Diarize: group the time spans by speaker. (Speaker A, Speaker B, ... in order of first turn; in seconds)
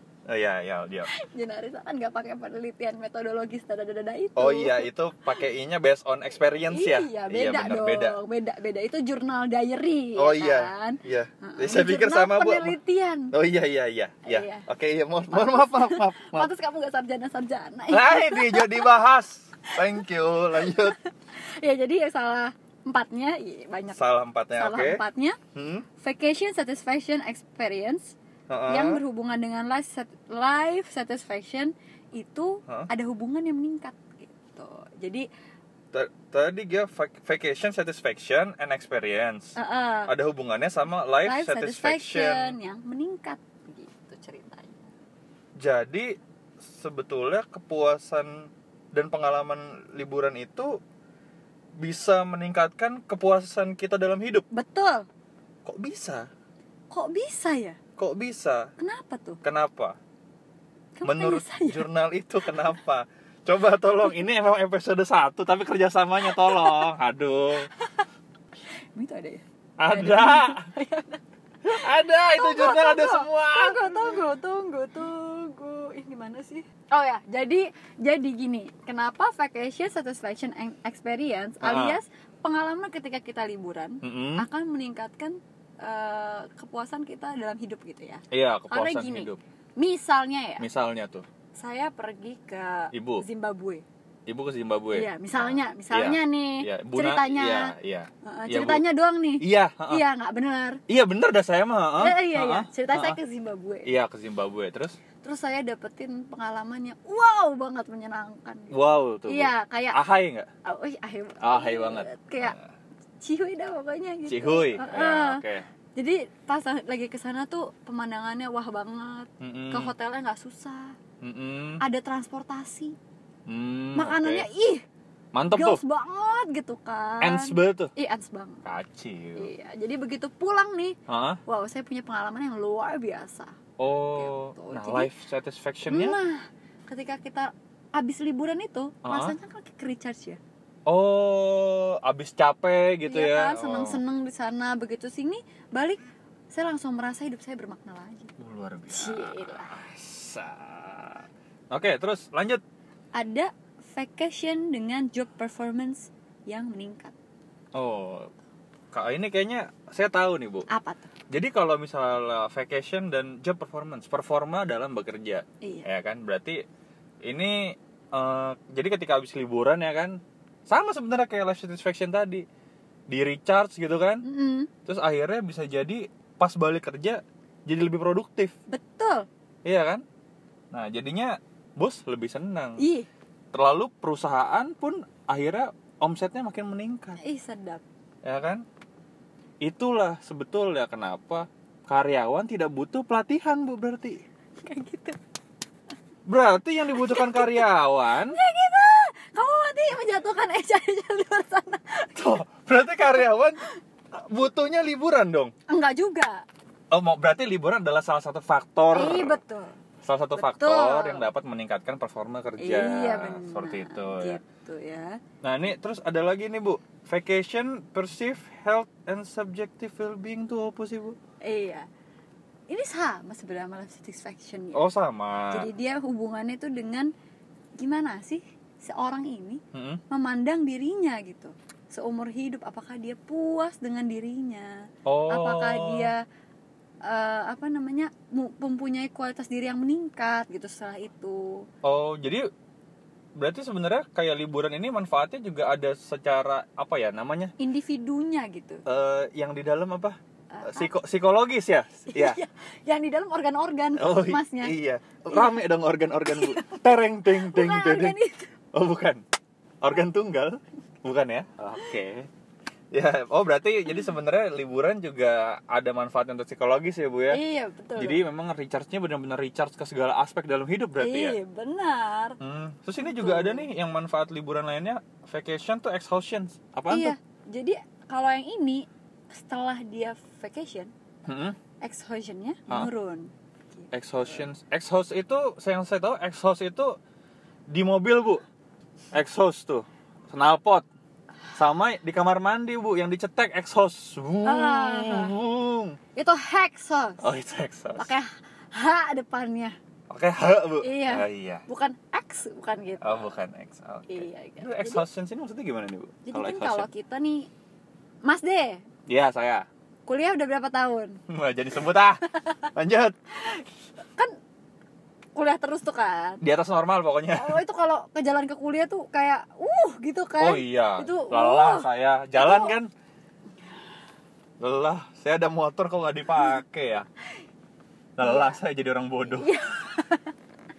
Speaker A: 0.3-1.1, 4.3-8.2, 10.2-12.8, 13.3-16.5, 17.9-20.9, 23.9-25.0, 25.5-25.9, 28.5-29.0, 35.9-39.5, 40.1-42.5, 45.6-46.1, 46.6-50.8, 51.8-54.4, 55.6-56.3, 58.0-58.7, 59.4-60.0, 61.0-67.7, 69.8-70.7, 71.6-74.2, 81.6-82.0, 84.0-84.5, 88.3-89.4, 90.6-91.2, 92.9-93.2, 94.2-98.8, 99.4-100.0, 100.9-103.2, 103.8-105.0, 108.7-110.5, 111.4-112.6, 114.3-115.7, 119.4-119.9, 121.2-121.8, 123.5-124.5, 125.3-125.8, 127.2-127.9, 128.6-129.5, 131.1-131.4, 133.8-136.2, 139.0-139.3, 140.9-144.0, 148.4-152.6, 157.7-158.3, 158.9-160.7, 161.3-166.6, 167.2-172.4, 173.1-174.2, 174.8-178.5, 179.6-180.0, 180.7-182.8, 183.5-187.2, 188.2-188.6, 189.6-194.2, 196.2-198.4, 202.2-203.6, 204.1-205.5, 206.9-209.4, 210.0-214.4, 215.4-221.2, 224.7-225.7, 229.7-230.0, 235.1-236.1, 241.8-242.5, 243.3-247.5, 248.8-252.4, 254.0-258.1, 258.7-259.2, 259.8-262.3, 262.9-267.4, 267.9-271.4, 272.4-277.1, 281.3-281.6, 283.9-286.9, 287.7-288.4, 289.1-290.9, 291.5-296.0, 297.2-298.1, 300.1-301.6, 303.0-306.9, 309.1-309.7, 311.3-312.2, 312.7-313.1, 316.4-317.6, 320.4-322.9, 324.6-327.1, 328.2-329.5
Speaker B: 1.1-4.9, 6.7-13.3, 14.2-14.7, 15.3-18.9, 20.6-24.0, 24.5-25.4, 26.0-28.1, 28.7-35.2, 39.5-40.1, 41.2-44.9, 54.5-55.1, 56.9-57.8, 58.8-59.4, 61.0-61.9, 66.2-66.9, 67.7-68.0, 68.9-71.2, 71.8-90.6, 91.6-93.8, 94.9-100.8, 102.0-103.9, 105.2-110.0, 110.6-112.5, 113.2-115.4, 116.0-121.0, 121.8-123.0, 123.9-124.8, 125.5-128.6, 129.4-133.6, 134.1-135.1, 135.9-140.4, 143.1-148.3, 148.9-149.7, 153.1-157.1, 160.7-161.1, 165.6-165.9, 174.2-174.7, 178.7-179.3, 182.8-183.1, 187.2-187.8, 194.6-195.2, 196.9-197.6, 198.2-202.4, 205.7-206.4, 208.9-209.7, 210.3-211.3, 212.6-215.2, 221.4-221.8, 222.7-224.8, 225.5-227.1, 227.8-236.2, 237.0-241.7, 247.6-248.8, 250.5-250.9, 252.1-254.7, 255.3-255.6, 256.3-258.5, 267.3-268.2, 271.0-272.4, 273.0-273.7, 276.9-280.9, 281.8-284.4, 294.4-295.3, 296.1-297.2, 298.0-299.8, 300.8-303.3, 304.1-305.0, 306.2-307.5, 308.2-308.8, 310.1-311.2, 312.3-312.7, 313.4-314.3, 315.4-316.4, 317.3-322.7, 328.2-328.6, 329.4-330.3